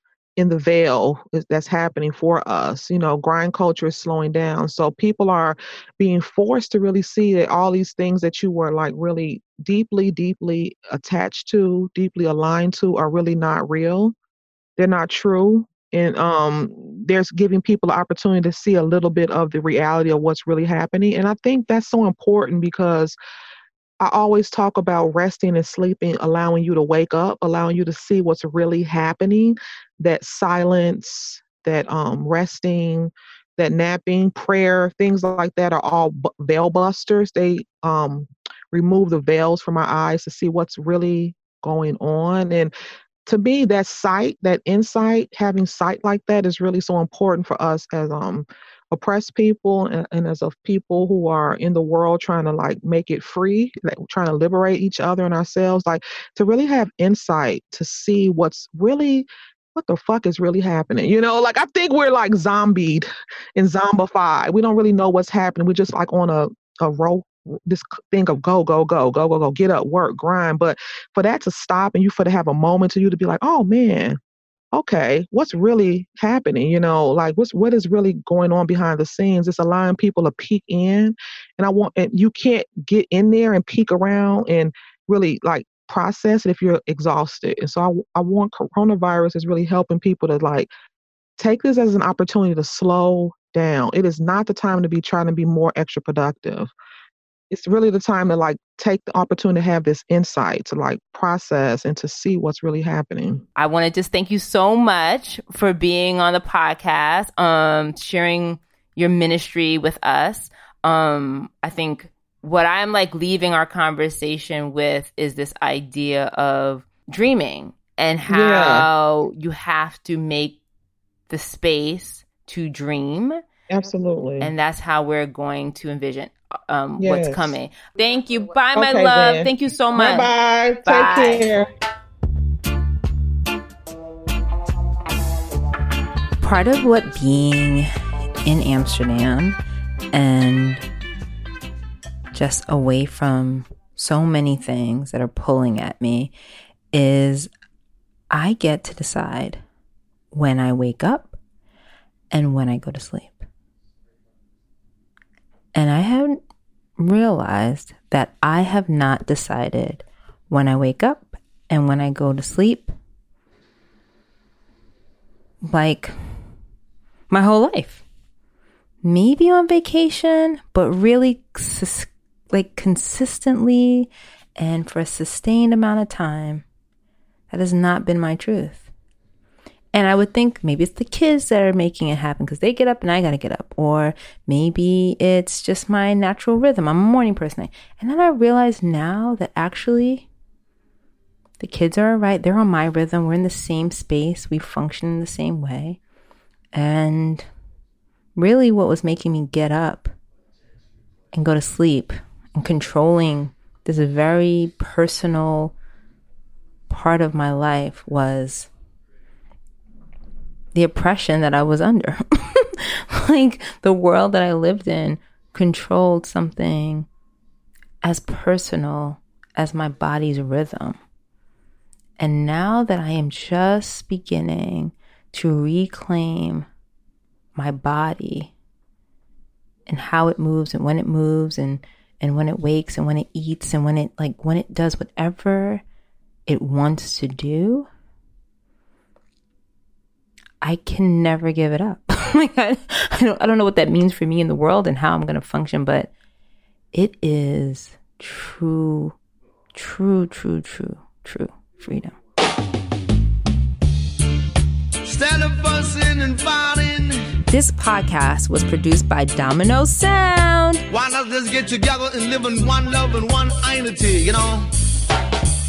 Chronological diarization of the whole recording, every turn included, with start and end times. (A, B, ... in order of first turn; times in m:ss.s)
0:00.4-0:14.1 A
0:14.8-0:23.2 A
0:24.0-0:42.7 A
0:43.2-1:14.2 A
1:14.7-1:30.7 A
1:31.4-1:36.7 A
1:37.5-1:43.4 A
1:43.6-2:00.6 B
1:58.3-1:58.9 A
2:01.3-2:03.4 B
2:03.7-2:04.5 A
2:04.4-2:10.3 B
2:07.0-2:07.6 A
2:08.7-2:11.7 A
2:10.8-2:11.5 B
2:16.4-2:17.9 B
2:18.4-2:19.6 B
2:20.1-2:20.8 B
2:22.3-2:26.3 B
2:26.9-2:27.5 B
2:28.3-2:29.6 B
2:30.3-2:31.4 B
2:32.3-2:33.4 B
2:35.7-2:36.4 B
2:37.0-2:42.9 B
2:45.6-2:46.1 B
2:47.3-2:48.0 B
2:49.0-2:56.6 B
2:57.5-2:58.9 B
2:59.9-3:10.3 B
3:11.6-3:16.0 B
3:16.7-3:17.5 B
3:18.4-3:20.1 B
3:21.3-3:25.7 B
3:26.9-3:28.7 B
3:30.7-3:37.1 B
3:38.0-3:41.0 B
3:42.2-3:46.7 B
3:47.5-3:48.5 B
3:49.9-3:55.8 B
3:56.5-3:57.9 B
4:00.6-4:06.1 B
4:06.9-4:09.2 B
4:09.7-4:12.1 B
4:15.0-4:17.3 C
4:17.5-4:20.8 B
4:20.9-4:24.7 C